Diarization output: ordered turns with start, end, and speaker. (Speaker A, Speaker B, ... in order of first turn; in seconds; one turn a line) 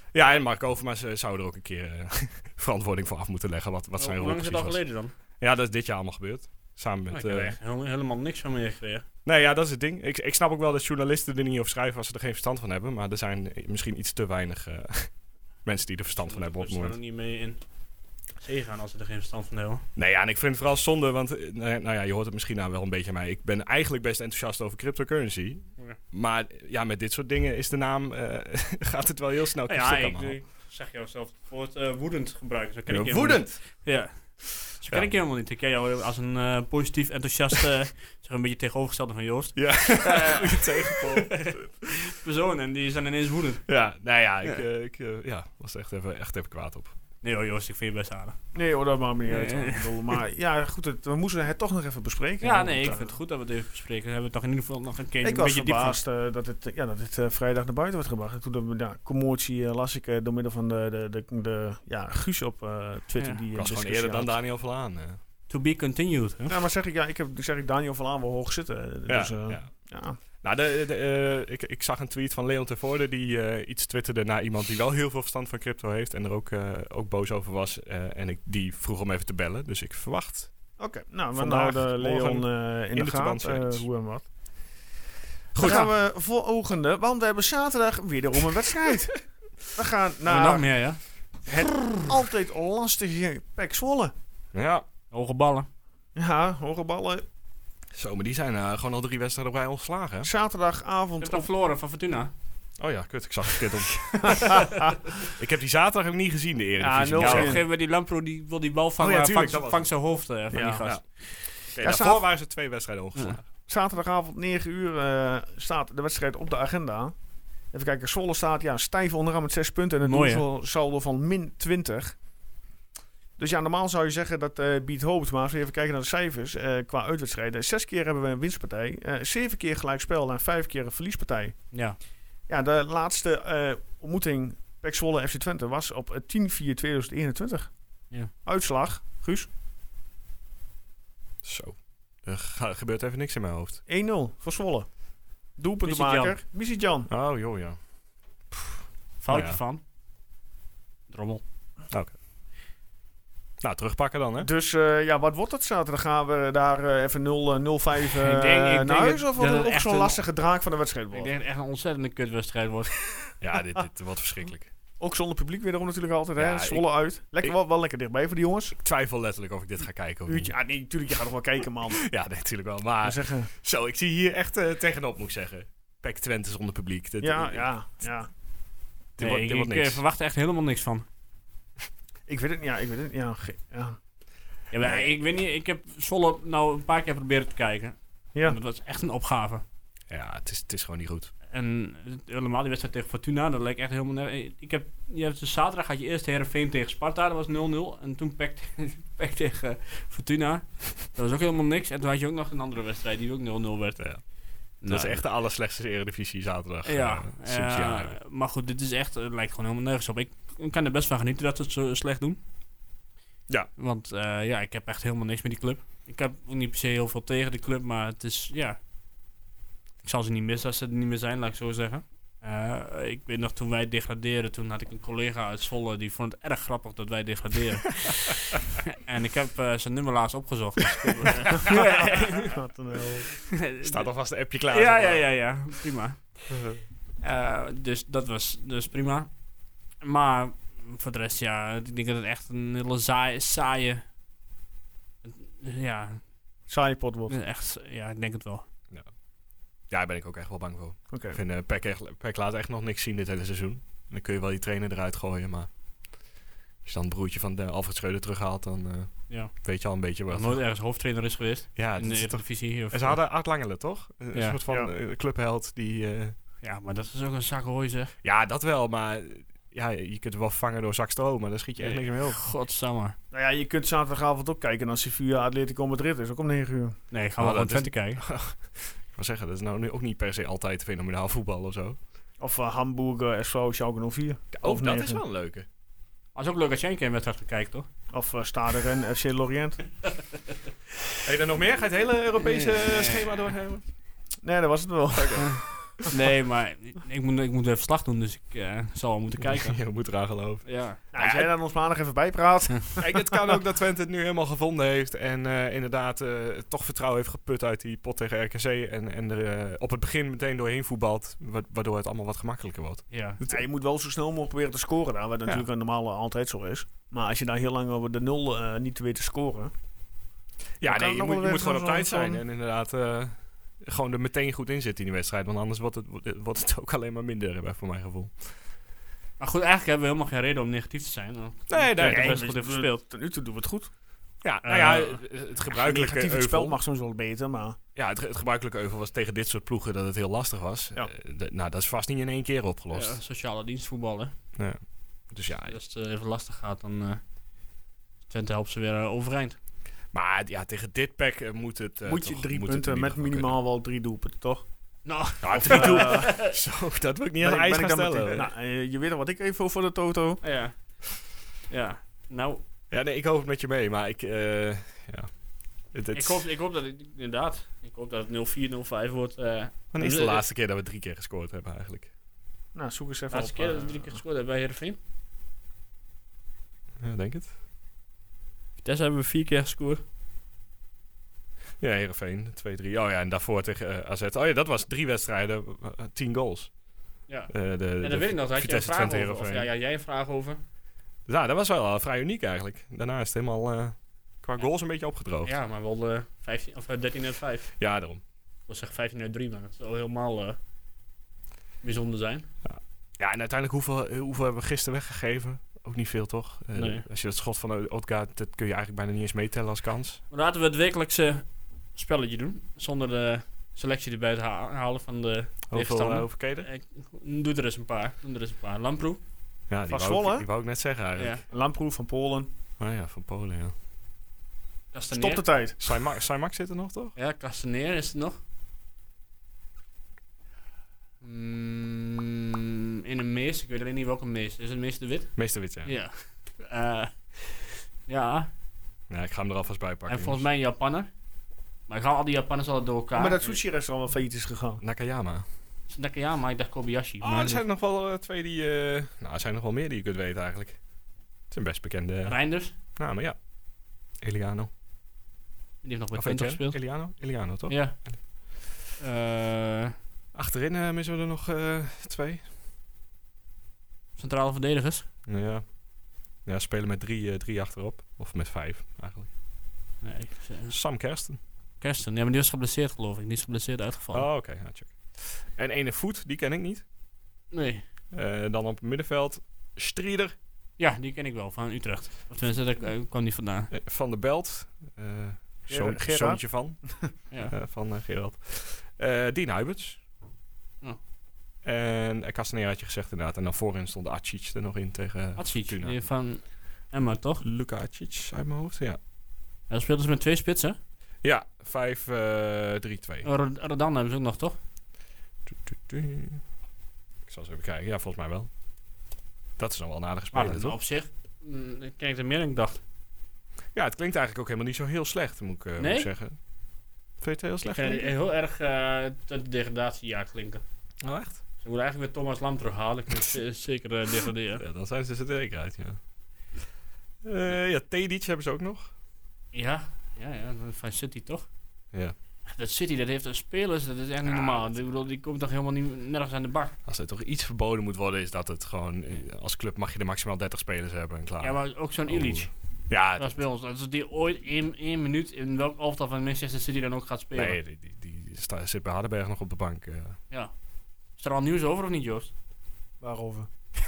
Speaker A: 0.1-4.8
Speaker B: 4.0-5.1
Speaker A: 5.4-7.5
Speaker B: 7.1-9.0
Speaker A: 9.2-15.1
Speaker A: 15.6-17.0
Speaker B: 16.1-17.6
Speaker B: 18.4-19.8
Speaker A: 19.9-30.4
Speaker B: 29.7-43.6
Speaker A: 32.9-33.6
Speaker A: 39.5-41.7
Speaker A: 43.7-46.9
Speaker B: 47.2-48.4
Speaker C: 48.5-53.1
Speaker B: 49.3-50.2
Speaker B: 52.4-56.0
Speaker C: 55.2-64.3
Speaker A: 63.5-65.2
Speaker B: 65.5-66.5
Speaker C: 66.5-70.2
Speaker A: 69.1-69.7
Speaker A: 70.4-80.5
Speaker C: 80.8-84.3
Speaker A: 81.3-83.8
Speaker A: 85.5-85.9
Speaker C: 85.6-89.2
Speaker C: 89.7-90.7
Speaker B: 90.3-91.0
Speaker C: 91.4-94.1
Speaker A: 94.5-94.8
Speaker B: 95.1-95.7
Speaker C: 96.2-97.2
Speaker A: 97.9-100.3
Speaker C: 100.2-101.5
Speaker B: 101.2-102.3
Speaker A: 102.8-104.6
Speaker C: 104.2-105.0
Speaker A: 105.3-107.6
Speaker C: 106.8-107.6
Speaker B: 107.2-111.1
Speaker A: 109.0-109.9
Speaker C: 110.5-110.8
Speaker A: 110.8-113.4
Speaker C: 111.8-112.2
Speaker C: 113.7-117.1
Speaker C: 117.7-122.2
Speaker B: 120.0-120.4
Speaker C: 123.4-131.6
Speaker B: 131.7-132.0
Speaker C: 132.5-137.7
Speaker C: 138.4-139.5
Speaker A: 141.4-143.8
Speaker C: 143.9-144.9
Speaker C: 145.6-147.1
Speaker B: 145.8-146.3
Speaker A: 147.1-147.8
Speaker A: 148.5-148.8
Speaker B: 149.2-149.8
Speaker A: 149.3-149.6
Speaker B: 151.1-151.4
Speaker A: 153.6-154.5
Speaker C: 154.4-161.3
Speaker B: 158.1-160.2
Speaker B: 161.1-163.0
Speaker A: 163.4-164.7
Speaker C: 165.0-168.7
Speaker A: 166.4-166.8
Speaker A: 168.7-170.5
Speaker C: 170.3-172.0
Speaker A: 172.0-177.7
Speaker C: 173.0-173.5
Speaker C: 177.2-178.3
Speaker A: 179.2-180.0
Speaker B: 179.2-181.0
Speaker C: 182.3-184.0
Speaker B: 184.7-189.6
Speaker A: 190.1-191.3
Speaker B: 191.5-204.0
Speaker B: 204.8-205.2
Speaker A: 204.9-208.1
Speaker B: 206.8-212.4
Speaker B: 213.8-218.8
Speaker B: 220.0-232.5
Speaker A: 231.4-231.8
Speaker C: 231.7-233.3
Speaker B: 233.5-234.0
Speaker A: 233.8-235.2
Speaker B: 234.7-236.3
Speaker A: 236.5-236.8
Speaker B: 237.2-239.3
Speaker B: 240.0-244.0
Speaker B: 245.2-246.2
Speaker C: 246.7-247.3
Speaker B: 247.3-248.6
Speaker A: 249.9-255.7
Speaker C: 251.1-251.4
Speaker A: 256.8-260.6
Speaker B: 259.3-259.5
Speaker B: 260.3-263.2
Speaker A: 261.8-266.3
Speaker B: 264.3-264.6
Speaker B: 266.6-268.1
Speaker A: 268.2-272.4
Speaker B: 271.8-273.1
Speaker C: 273.3-277.0
Speaker B: 277.1-278.2
Speaker A: 277.4-282.0
Speaker C: 282.4-285.2
Speaker A: 284.5-285.7
Speaker B: 286.3-287.9
Speaker C: 288.1-289.8
Speaker A: 291.2-293.8
Speaker B: 292.4-293.4
Speaker C: 294.4-296.1
Speaker A: 295.1-295.5
Speaker B: 295.4-299.8
Speaker A: 299.4-301.5
Speaker B: 300.6-301.0
Speaker C: 301.1-303.2
Speaker A: 303.0-313.6
Speaker B: 313.1-313.4
Speaker C: 313.5-319.7
Speaker A: 320.8-328.4
Speaker C: 320.8-322.4
Speaker B: 329.4-333.0
Speaker A: 331.7-332.4
Speaker C: 332.0-333.9
Speaker A: 334.4-336.8
Speaker B: 334.6-335.2
Speaker C: 335.7-337.8
Speaker A: 337.9-343.2
Speaker B: 342.9-344.3
Speaker A: 344.6-345.8
Speaker B: 345.7-347.2
Speaker B: 348.3-349.6
Speaker A: 350.1-353.6
Speaker C: 352.1-354.6
Speaker B: 355.0-356.5
Speaker A: 355.4-358.5
Speaker C: 355.6-356.3
Speaker C: 357.4-360.4
Speaker B: 360.4-361.0
Speaker B: 361.7-362.6
Speaker A: 362.9-365.3
Speaker A: 365.9-366.4
Speaker B: 366.1-370.4
Speaker A: 369.9-372.1
Speaker C: 372.7-374.2
Speaker B: 373.3-375.0
Speaker A: 377.0-377.5
Speaker B: 378.8-380.0
Speaker A: 381.8-386.7
Speaker B: 387.3-390.6
Speaker A: 387.5-389.7
Speaker A: 391.2-395.5
Speaker B: 395.4-397.7
Speaker A: 397.8-398.2
Speaker B: 398.7-400.6
Speaker B: 401.8-402.5
Speaker A: 402.6-410.2
Speaker B: 406.7-407.1
Speaker B: 410.3-419.2
Speaker A: 415.7-416.7
Speaker A: 419.7-421.4
Speaker C: 419.9-420.5
Speaker B: 421.2-421.4
Speaker C: 421.5-422.5
Speaker A: 422.8-423.7
Speaker B: 424.9-425.4
Speaker C: 425.1-425.8
Speaker A: 425.8-427.1
Speaker B: 427.1-428.4
Speaker B: 431.2-438.5
Speaker A: 435.4-435.9
Speaker A: 439.1-440.4
Speaker B: 440.1-441.1
Speaker B: 441.9-443.6
Speaker C: 443.1-444.8
Speaker A: 444.8-445.4
Speaker B: 445.9-447.6
Speaker A: 447.2-450.8
Speaker A: 451.5-453.4
Speaker B: 452.2-452.7
Speaker A: 454.2-454.7
Speaker B: 455.8-456.8
Speaker A: 456.1-458.2
Speaker B: 457.7-458.0
Speaker B: 459.0-459.9
Speaker A: 460.3-462.4
Speaker B: 464.2-465.1
Speaker A: 465.3-465.6
Speaker A: 466.4-469.3
Speaker B: 470.0-470.8
Speaker A: 470.7-471.4
Speaker B: 471.8-474.2
Speaker A: 474.1-476.8
Speaker B: 477.5-477.8
Speaker A: 478.1-480.3
Speaker B: 480.8-483.7
Speaker A: 483.7-490.0
Speaker C: 485.7-487.1
Speaker A: 491.6-495.9
Speaker B: 495.4-497.4
Speaker A: 497.4-499.0
Speaker B: 499.7-500.8
Speaker A: 501.2-503.3
Speaker B: 503.2-504.6
Speaker A: 505.5-506.4
Speaker A: 507.3-508.5
Speaker A: 509.6-510.8
Speaker B: 510.3-512.8
Speaker A: 513.7-516.4
Speaker B: 515.8-516.1
Speaker A: 517.2-518.1
Speaker B: 517.6-520.6
Speaker A: 521.0-521.4
Speaker B: 521.6-524.6
Speaker A: 524.5-526.0
Speaker A: 527.2-528.9
Speaker B: 529.5-531.5
Speaker B: 532.5-536.8
Speaker A: 534.2-534.7
Speaker A: 536.9-543.4
Speaker B: 541.4-542.5
Speaker B: 543.0-547.6
Speaker A: 547.3-550.2
Speaker B: 551.2-552.3
Speaker C: 553.0-553.5